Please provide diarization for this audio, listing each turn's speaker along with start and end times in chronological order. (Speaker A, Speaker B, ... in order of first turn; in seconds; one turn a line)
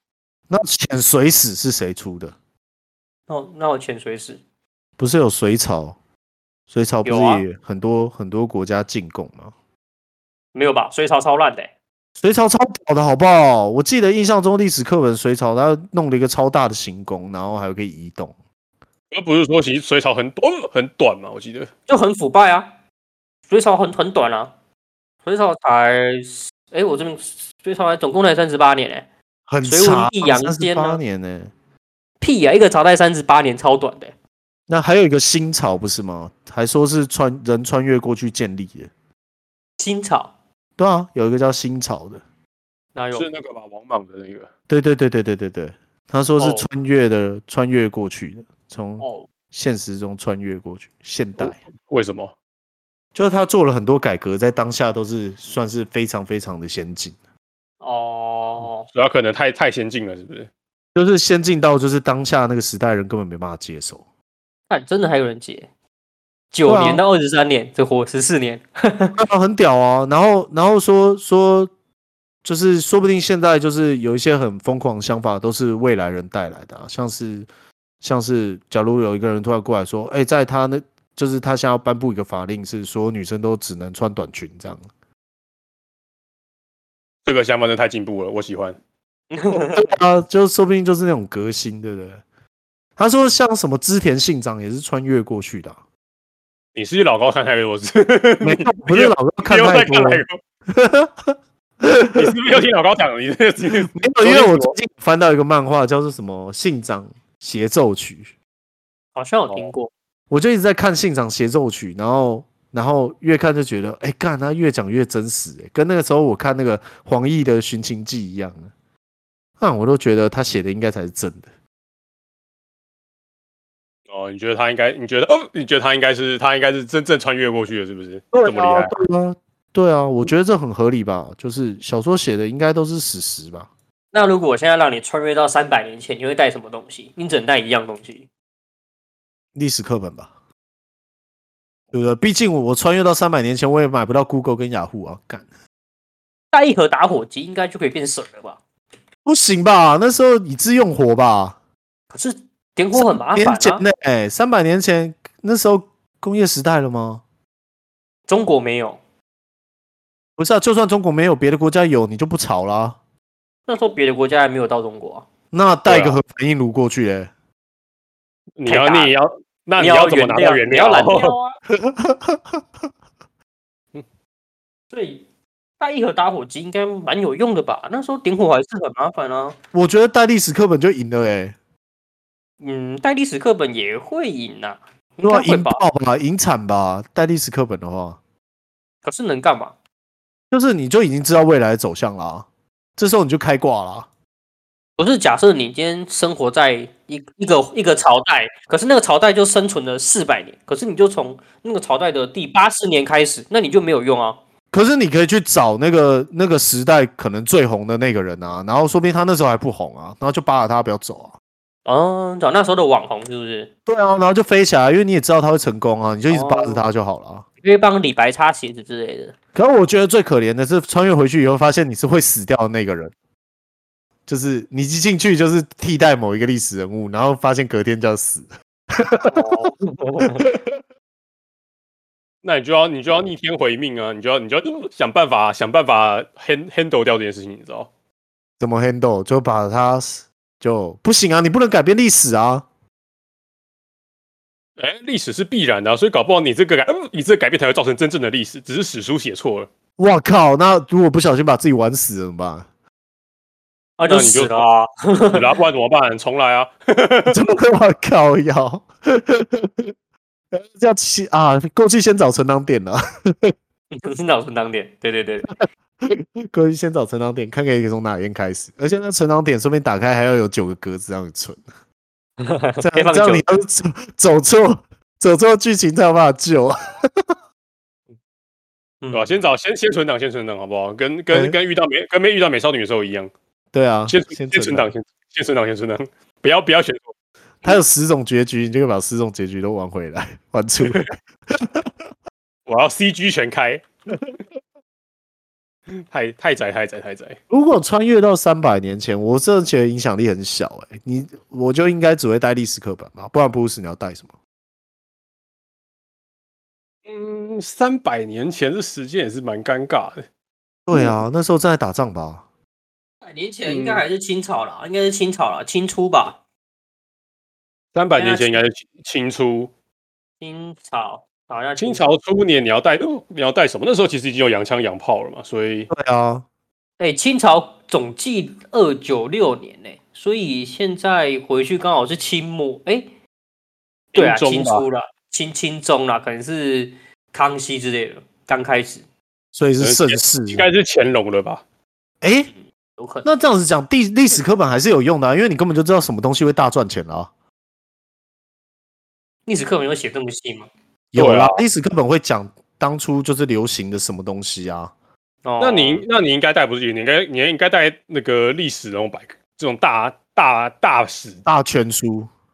Speaker A: 0.5-2.3
Speaker B: 3.3-4.4
Speaker A: 5.0-6.0
Speaker A: 6.7-9.5
Speaker B: 7.0-7.4
Speaker B: 10.5-11.7
Speaker A: 12.2-18.3
Speaker C: 19.1-21.7
Speaker B: 21.9-22.7
Speaker B: 23.5-24.5
Speaker B: 25.2-29.1
Speaker A: 29.5-31.5
Speaker B: 29.6-31.0
Speaker B: 32.2-34.1
Speaker A: 34.7-38.9
Speaker B: 39.8-40.3
Speaker A: 40.8-42.2
Speaker B: 42.9-43.2
Speaker C: 43.1-44.5
Speaker A: 44.7-51.6
Speaker B: 46.4-46.7
Speaker B: 49.0-49.3
Speaker C: 51.4-52.3
Speaker A: 53.1-57.1
Speaker B: 57.8-58.9
Speaker C: 58.9-60.5
Speaker A: 60.9-64.0
Speaker B: 64.7-65.7
Speaker B: 66.5-69.2
Speaker A: 66.7-67.0
Speaker A: 69.2-71.7
Speaker A: 72.4-77.5
Speaker A: 78.0-84.8
Speaker C: 87.2-88.8
Speaker B: 89.3-89.9
Speaker A: 89.7-92.2
Speaker A: 93.0-95.8
Speaker C: 96.7-100.3
Speaker A: 98.4-102.3
Speaker C: 102.1-104.8
Speaker A: 103.7-108.3
Speaker B: 109.1-109.9
Speaker A: 110.3-118.7
Speaker A: 119.6-121.5
Speaker C: 124.1-128.9
Speaker A: 128.3-133.7
Speaker B: 134.1-138.2
Speaker A: 139.5-140.3
Speaker A: 141.9-145.4
Speaker B: 146.5-148.6
Speaker A: 149.2-151.6
Speaker B: 152.1-153.8
Speaker A: 152.9-157.2
Speaker B: 158.3-159.0
Speaker A: 160.4-163.0
Speaker B: 163.7-165.2
Speaker A: 165.5-167.3
Speaker C: 165.9-166.2
Speaker C: 168.6-171.3
Speaker B: 168.7-169.1
Speaker B: 169.8-171.6
Speaker A: 171.7-172.6
Speaker B: 174.9-175.2
Speaker B: 175.8-179.6
Speaker A: 179.7-181.5
Speaker B: 182.6-185.8
Speaker A: 185.2-188.2
Speaker B: 189.0-189.7
Speaker A: 190.5-194.1
Speaker B: 195.0-204.4
Speaker A: 204.7-211.3
Speaker B: 211.8-213.7
Speaker A: 213.8-217.4
Speaker B: 216.3-216.8
Speaker B: 217.6-219.3
Speaker A: 219.5-223.1
Speaker A: 224.3-229.3
Speaker C: 229.3-229.7
Speaker B: 229.8-230.4
Speaker A: 230.4-230.7
Speaker C: 232.4-237.9
Speaker A: 238.6-242.7
Speaker C: 244.8-249.7
Speaker A: 250.0-252.7
Speaker B: 254.0-255.4
Speaker C: 254.1-254.6
Speaker C: 255.3-257.4
Speaker A: 257.3-259.9
Speaker A: 260.5-263.5
Speaker B: 263.9-265.5
Speaker A: 266.0-271.6
Speaker B: 272.4-273.4
Speaker A: 272.8-277.3
Speaker B: 279.0-279.4
Speaker C: 279.1-283.3
Speaker A: 281.3-281.6
Speaker A: 283.7-284.9
Speaker C: 284.1-287.1
Speaker A: 287.6-291.9
Speaker C: 290.8-291.1
Speaker C: 292.7-293.9
Speaker C: 296.1-297.4
Speaker A: 297.5-304.3
Speaker C: 307.1-310.2
Speaker A: 310.9-312.4
Speaker B: 313.2-316.4
Speaker C: 313.6-314.0
Speaker C: 317.9-319.7
Speaker B: 318.1-318.6
Speaker B: 320.4-322.1
Speaker C: 321.8-325.9
Speaker A: 325.9-326.4
Speaker B: 327.0-333.1
Speaker C: 334.1-334.8
Speaker B: 334.1-339.0
Speaker A: 339.5-340.6
Speaker C: 339.8-341.6
Speaker A: 342.2-342.5
Speaker B: 343.0-343.2
Speaker A: 343.2-347.3
Speaker B: 349.4-350.7
Speaker A: 351.1-354.9
Speaker C: 351.2-351.6
Speaker B: 355.4-356.0
Speaker C: 355.6-361.4
Speaker A: 361.4-362.3